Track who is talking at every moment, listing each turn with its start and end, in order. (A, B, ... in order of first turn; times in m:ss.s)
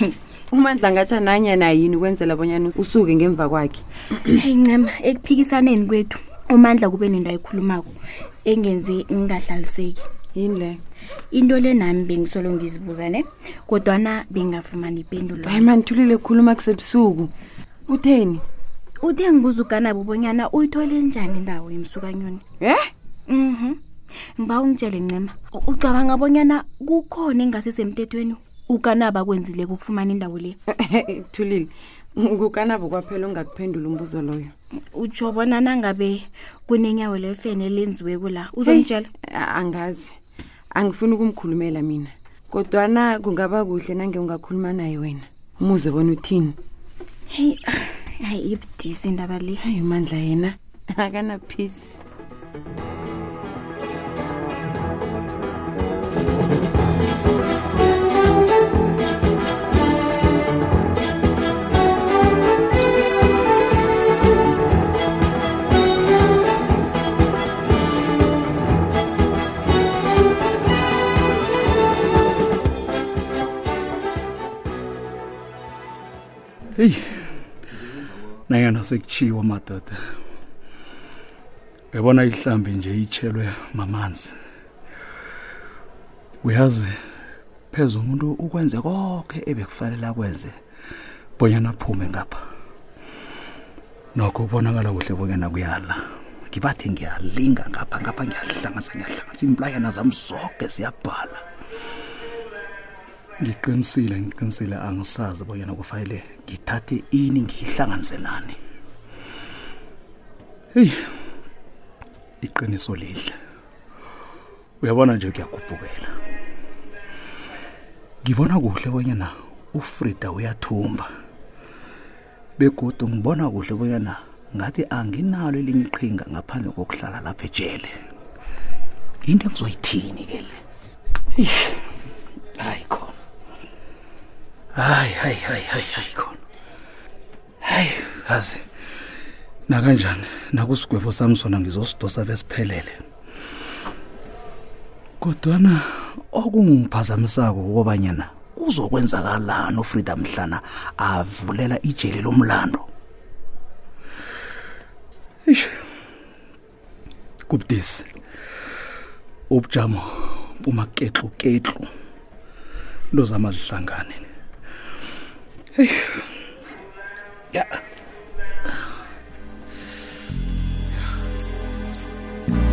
0:00.5-0:04.4 A
0:04.4-0:07.9 B
0:08.4-0:10.0 B
0:10.4-0:10.8 A
0:11.3-0:15.7 B
0:15.4-0:17.3 A
0:17.9-0:18.4 A
0:19.0-0:22.4 B
0:22.6-0:22.9 A
0:23.3-0:23.8 B
0:24.4-0:30.6 B
0:30.7-0:34.5 A
0:35.0-0:39.1 B
0:38.6-0:40.2 A
0:40.7-0:46.6 A
0:47.3-0:49.6 B
0:49.6-0:52.0 A
1:16.8-1:17.0 C
1:18.5-1:20.0 C
1:21.9-1:24.3 C
1:26.4-1:26.9 C
1:27.7-1:30.6 C
1:31.4-1:32.4 C
1:34.2-1:36.0 C
1:36.5-1:41.4 C
1:43.4-1:48.6 C
1:52.4-1:53.3 C
1:54.8-1:56.1 C
1:58.2-2:01.1 C
2:02.6-2:07.9 C
2:09.3-2:10.6 C
2:12.6-2:13.1 C
2:14.8-2:16.4 C
2:17.6-2:18.6 C
2:19.7-2:23.0 C
2:25.2-2:32.9 C
2:37.5-2:38.1 C
2:39.5-2:40.1 C
2:40.6-2:41.9 C
2:43.1-2:44.2 C
2:45.8-2:46.0 C